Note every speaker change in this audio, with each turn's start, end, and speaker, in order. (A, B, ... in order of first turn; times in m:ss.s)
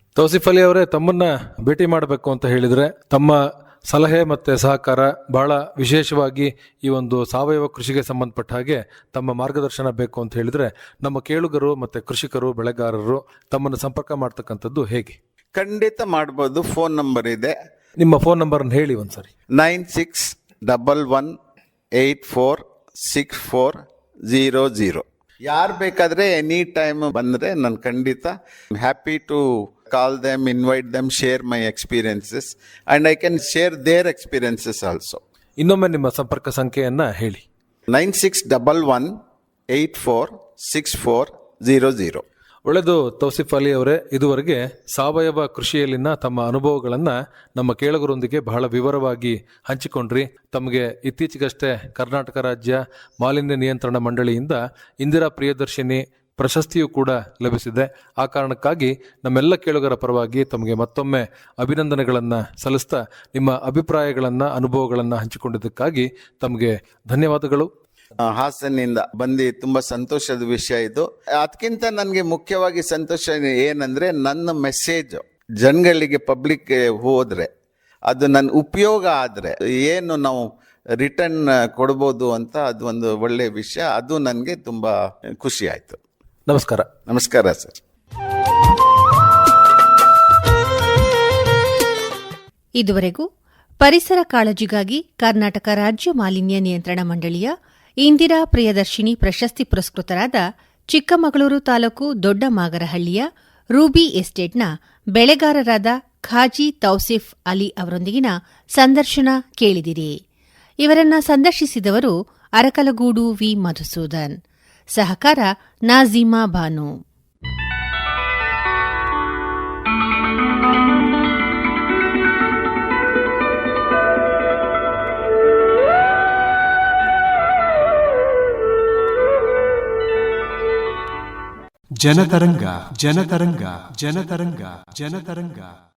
0:00.2-0:03.4 A
0:03.9-0:15.2 A
0:15.5-0:17.5 B
0:18.0-0:19.3 A
0:19.5-0:21.3 B
0:21.9-0:35.2 B
0:35.6-0:37.4 A
0:37.9-0:39.1 B
0:39.7-0:42.2 B
0:42.6-1:07.7 A
1:08.2-1:17.5 B
1:18.1-1:20.5 B
1:21.0-1:26.0 B
1:26.5-1:26.9 A
1:27.1-1:27.8 B
1:32.8-1:33.2 C
1:33.8-1:43.2 C
1:43.8-1:50.2 C
1:50.8-1:54.4 C
1:54.9-1:56.9 C
2:12.0-2:15.7 D